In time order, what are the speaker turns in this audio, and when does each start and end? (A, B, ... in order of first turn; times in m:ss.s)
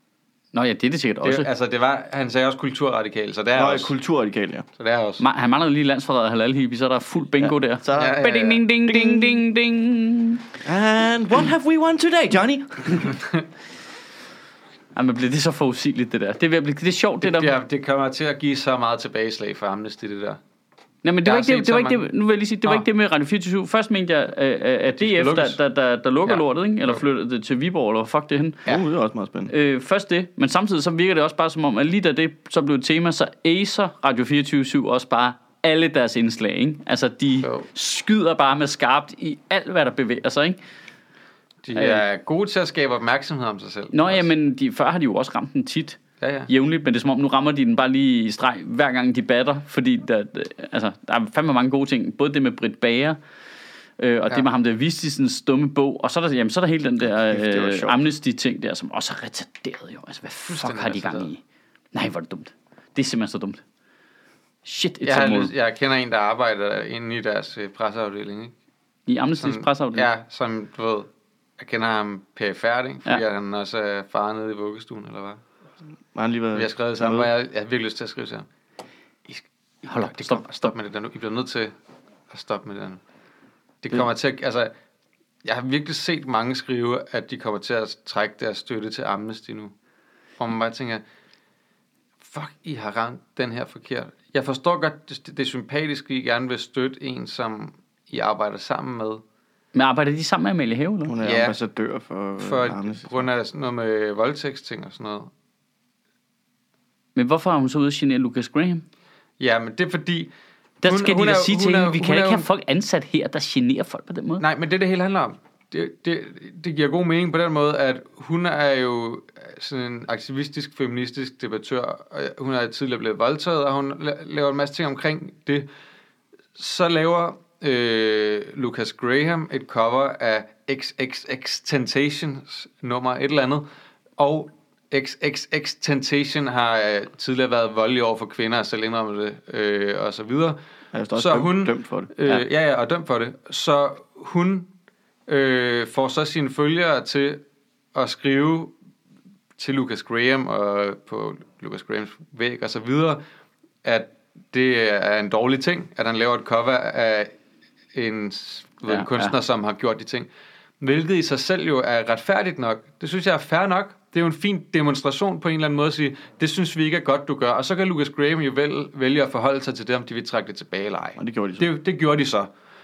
0:00.5-0:01.5 A
0:01.2-0:03.9 B
0:03.5-0:04.6 C
0:04.8-0:05.2 B
0:05.2-0:10.4 A
0:07.4-0:09.4 C
0:07.9-0:08.6 B
0:10.6-0:13.2 C
0:14.9-0:17.5 A
0:17.2-0:20.4 B
0:21.0-0:28.6 A
0:21.2-0:22.1 B
0:24.9-0:25.6 B
0:28.6-0:29.5 C
0:29.5-0:40.6 A
0:41.6-0:44.3 B
0:41.7-0:42.0 A
0:43.9-0:53.2 A
0:46.2-0:46.5 B
0:54.0-1:01.4 A
0:57.0-0:58.0 C
1:00.5-1:01.3 B
1:01.9-1:03.6 A
1:04.6-1:05.5 A
1:05.0-1:08.5 B
1:09.1-1:10.1 A
1:09.4-1:15.4 B
1:16.1-1:17.3 C
1:16.5-1:18.5 B
1:19.8-1:20.7 A
1:20.0-1:21.7 B
1:22.3-1:23.0 B
1:23.8-1:24.7 B
1:25.4-1:29.7 B
1:30.4-1:31.0 B
1:32.2-1:39.2 B
1:39.7-1:41.1 A
1:41.1-1:43.2 C
1:41.2-1:41.6 B
1:42.4-1:45.3 B
1:47.1-1:48.8 A
1:49.4-1:50.3 B
1:50.8-1:54.4 A
1:50.8-1:52.4 B
1:54.4-2:05.7 B
2:06.6-2:13.6 B
2:14.2-2:20.6 B
2:20.9-2:22.1 C
2:21.1-2:24.7 B
2:25.3-2:27.4 B
2:27.9-2:28.7 B
2:29.6-2:33.2 B
2:33.8-2:37.3 B
2:37.9-2:40.3 B
2:38.9-2:39.3 A
2:40.8-2:52.5 B
2:51.2-2:51.7 C